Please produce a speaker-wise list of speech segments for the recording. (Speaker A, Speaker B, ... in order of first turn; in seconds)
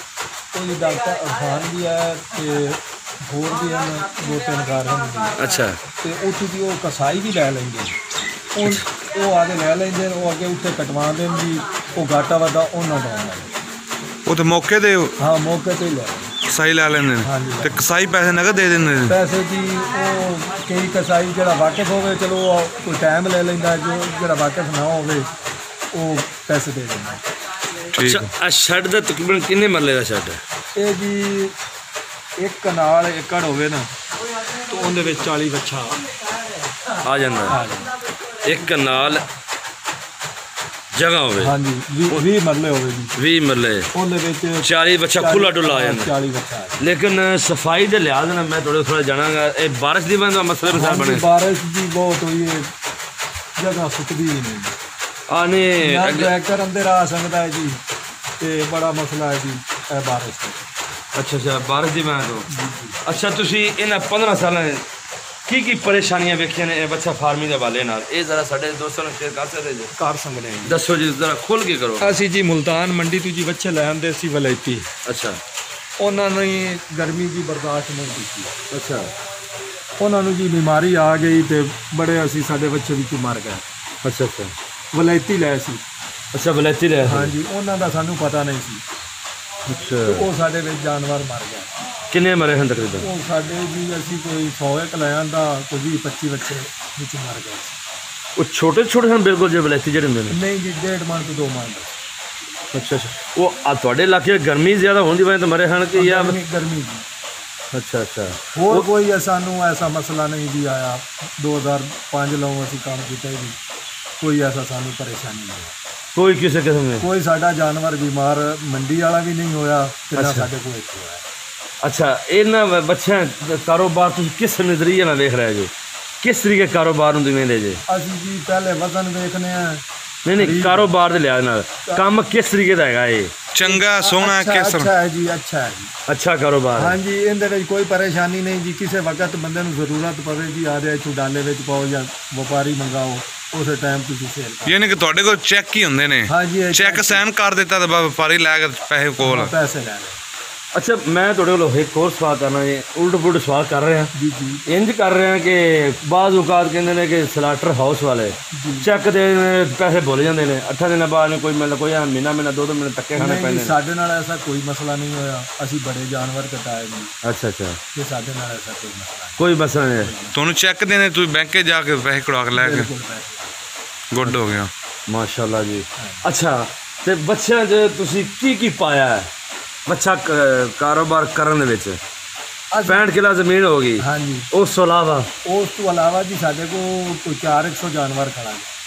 Speaker A: 0.5-5.4, 6.0-8.0, 8.5-13.6, 15.2-16.3, 17.2-17.8, 19.1-25.3, 25.9-27.2, 30.8-31.5, 32.4-33.9, 34.6-36.0, 37.5-37.9, 41.4-43.1, 43.9-46.8, 50.7-52.7, 53.6-54.7, 55.8-57.8, 58.4-60.6, 62.5-63.0, 70.0-70.8, 72.0-74.9, 76.0-78.5, 80.0-83.6, 84.9-85.8, 87.0-88.8, 90.0-91.7, 93.0-97.8, 100.3-101.9, 105.9-107.0, 108.5-113.6, 114.2-115.8, 117.0-121.2, 127.9-129.8, 130.3-130.9, 133.6-135.9, 136.8-144.9, 146.3-147.2, 149.2-150.2, 154.1-154.6, 158.5-158.9, 163.1-167.1, 167.9-170.3, 172.5-173.5, 176.0-176.2, 182.7-183.1, 184.0-184.5, 185.4-188.7
Speaker B: 5.3-5.8, 28.0-30.4, 37.0-37.6, 38.4-39.2, 40.9-41.5, 43.1-43.9, 44.6-46.1, 46.8-51.2, 55.3-56.3, 61.1-62.5, 63.0-64.8, 65.5-69.9, 70.7-72.2, 75.0-75.4, 78.7-79.1, 84.0-84.5, 86.3-87.3, 89.7-90.3, 92.1-93.1, 98.4-100.4, 102.7-106.3, 107.7-108.8, 116.1-117.0, 120.2-120.5, 121.8-125.7, 126.2-127.8, 130.2-133.3, 136.1-136.9, 150.7-154.1, 154.7-163.7, 167.2-167.8, 169.4-170.1, 175.1-179.3, 179.9-182.0, 182.8-185.3
Speaker C: 14.2-15.2, 16.5-19.1, 27.9-28.3, 133.5-134.9, 144.7-149.5, 170.3-172.9, 174.1-174.7